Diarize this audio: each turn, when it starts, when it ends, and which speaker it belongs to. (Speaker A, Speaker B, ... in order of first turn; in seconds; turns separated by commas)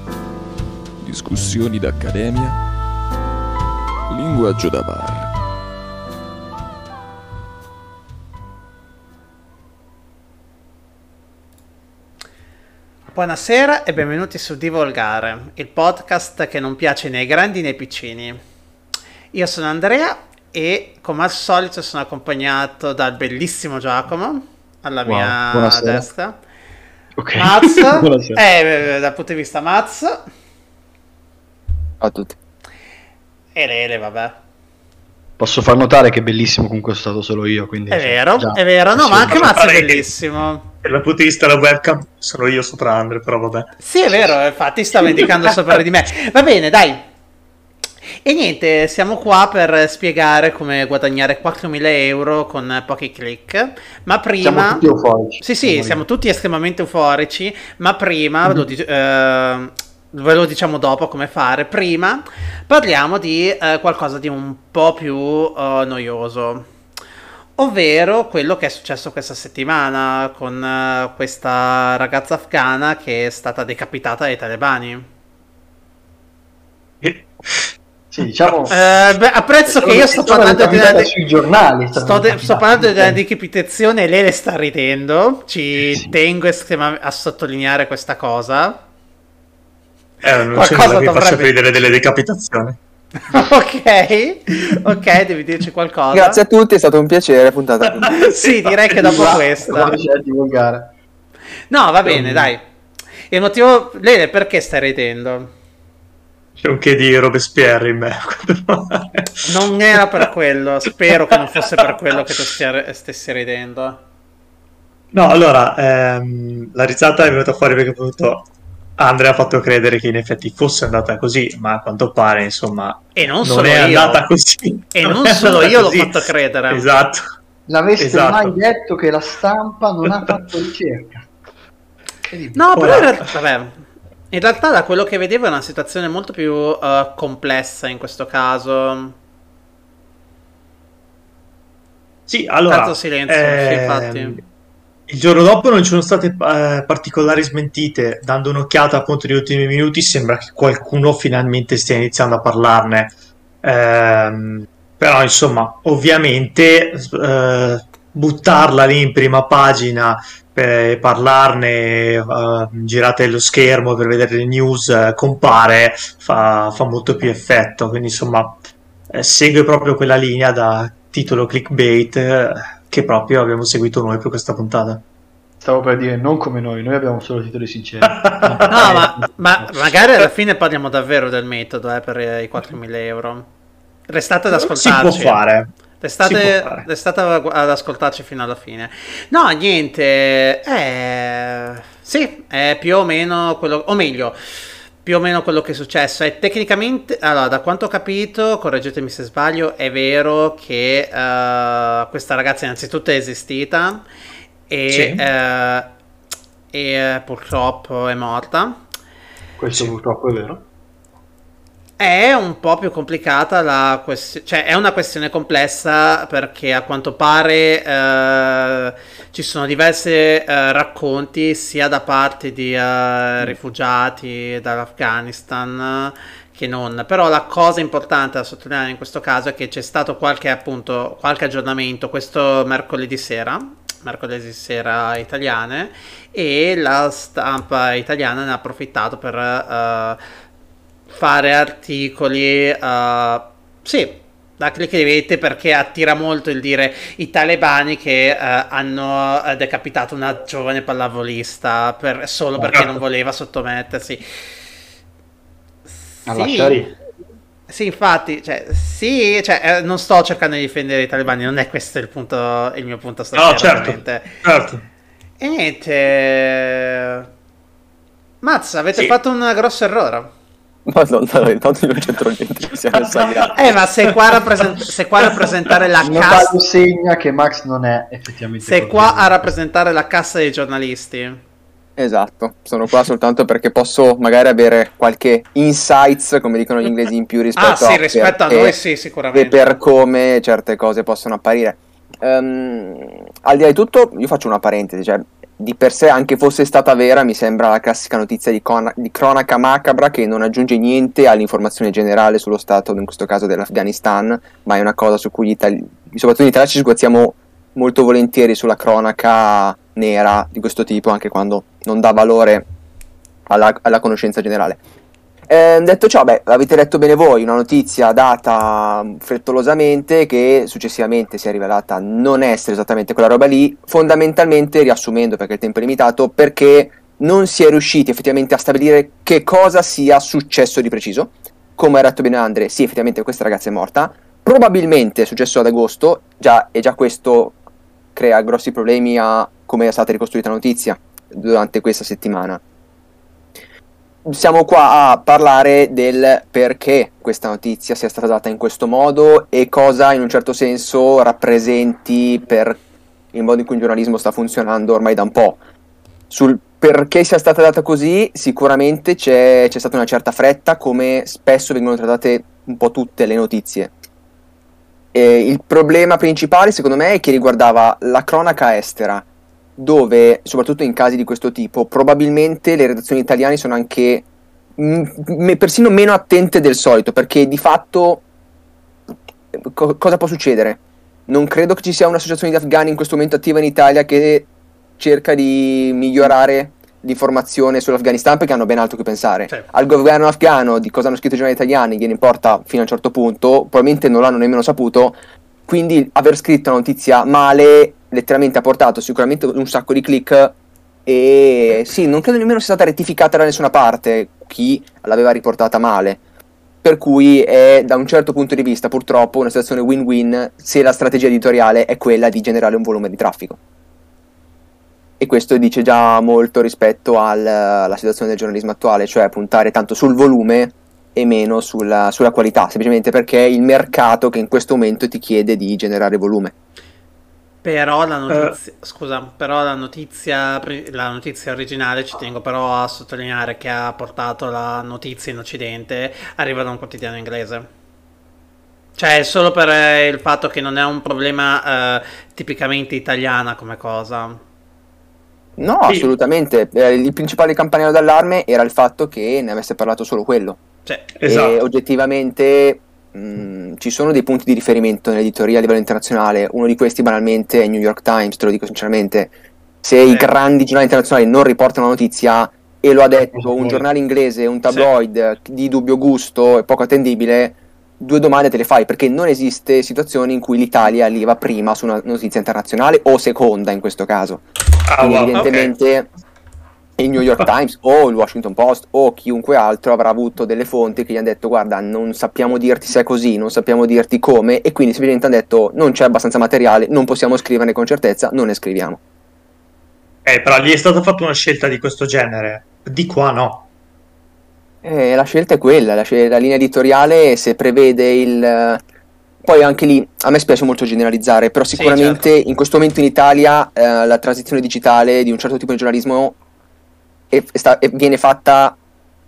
Speaker A: 1.0-2.6, Speaker A: 4.1-5.3, Speaker B: 13.1-18.4, Speaker B: 19.3-26.4, Speaker C: 25.1-26.1, Speaker C: 27.2-28.4, Speaker B: 27.3-30.2, Speaker D: 32.0-32.4, Speaker B: 33.5-34.4, Speaker C: 35.4-39.5, Speaker B: 37.9-40.6, Speaker E: 39.3-40.1, Speaker E: 40.8-43.7, Speaker B: 43.8-47.0, Speaker B: 48.2-54.8, Speaker C: 54.4-56.0, Speaker B: 55.4-66.7, Speaker B: 67.6-75.1, Speaker E: 77.0-77.7, Speaker C: 78.1-78.8, Speaker E: 78.4-78.7, Speaker B: 78.7-81.1, Speaker C: 79.7-83.2, Speaker E: 80.6-80.9, Speaker B: 81.9-88.8, Speaker E: 90.2-92.8, Speaker B: 90.5-91.6, Speaker B: 93.3-96.4, Speaker D: 96.1-98.1, Speaker E: 98.0-99.0, Speaker B: 98.0-100.0, Speaker C: 99.0-100.9, Speaker B: 101.7-102.6, Speaker E: 102.0-102.5, Speaker B: 103.3-105.5, Speaker E: 106.6-109.5, Speaker B: 109.4-114.0, Speaker E: 115.1-127.2, Speaker B: 123.1-124.2, Speaker B: 124.9-126.8, Speaker C: 127.7-131.3, Speaker E: 128.0-128.6, Speaker E: 130.1-130.3, Speaker C: 132.2-133.1, Speaker B: 132.5-139.1, Speaker E: 132.7-133.1, Speaker E: 142.3-144.4, Speaker B: 142.7-144.4, Speaker E: 145.1-168.6, Speaker E: 169.1-175.0, Speaker C: 175.6-179.7, Speaker E: 178.0-179.1, Speaker B: 178.7-183.5, Speaker B: 184.1-185.4, Speaker E: 184.5-186.9, Speaker B: 186.0-194.4, Speaker B: 195.0-204.0, Speaker B: 204.7-205.9, Speaker E: 204.9-205.2, Speaker B: 206.7-208.8, Speaker C: 209.6-210.7, Speaker B: 212.0-240.2, Speaker B: 241.1-254.2, Speaker E: 252.7-253.0, Speaker C: 256.3-256.9, Speaker B: 256.3-256.8, Speaker B: 257.7-264.4, Speaker E: 263.3-264.8, Speaker B: 265.4-267.2, Speaker B: 268.4-270.3, Speaker D: 270.9-273.7, Speaker E: 273.1-274.4, Speaker B: 273.5-276.5, Speaker E: 275.3-275.7, Speaker C: 276.0-279.3, Speaker B: 278.6-281.4, Speaker D: 282.0-288.8, Speaker B: 287.6-289.8, Speaker D: 289.3-312.6, Speaker D: 313.5-314.8, Speaker D: 315.5-337.6, Speaker D: 338.1-342.6, Speaker D: 344.2-352.8, Speaker D: 353.3-355.6, Speaker D: 356.3-363.9, Speaker D: 365.1-369.2, Speaker D: 369.8-374.2, Speaker D: 374.8-378.2, Speaker D: 379.5-406.2, Speaker D: 406.8-413.6, Speaker D: 415.2-426.5, Speaker B: 427.6-437.7, Speaker E: 428.3-428.5, Speaker B: 438.9-444.4, Speaker D: 445.6-450.6, Speaker E: 445.9-446.1, Speaker E: 451.2-451.6, Speaker D: 451.2-459.3, Speaker D: 459.8-474.4, Speaker B: 460.0-460.3, Speaker C: 463.3-463.8, Speaker E: 474.9-475.7, Speaker D: 475.0-476.1, Speaker D: 477.0-489.0, Speaker E: 490.2-493.7, Speaker D: 494.8-498.8, Speaker D: 499.4-506.4, Speaker B: 501.7-502.2, Speaker D: 507.3-508.8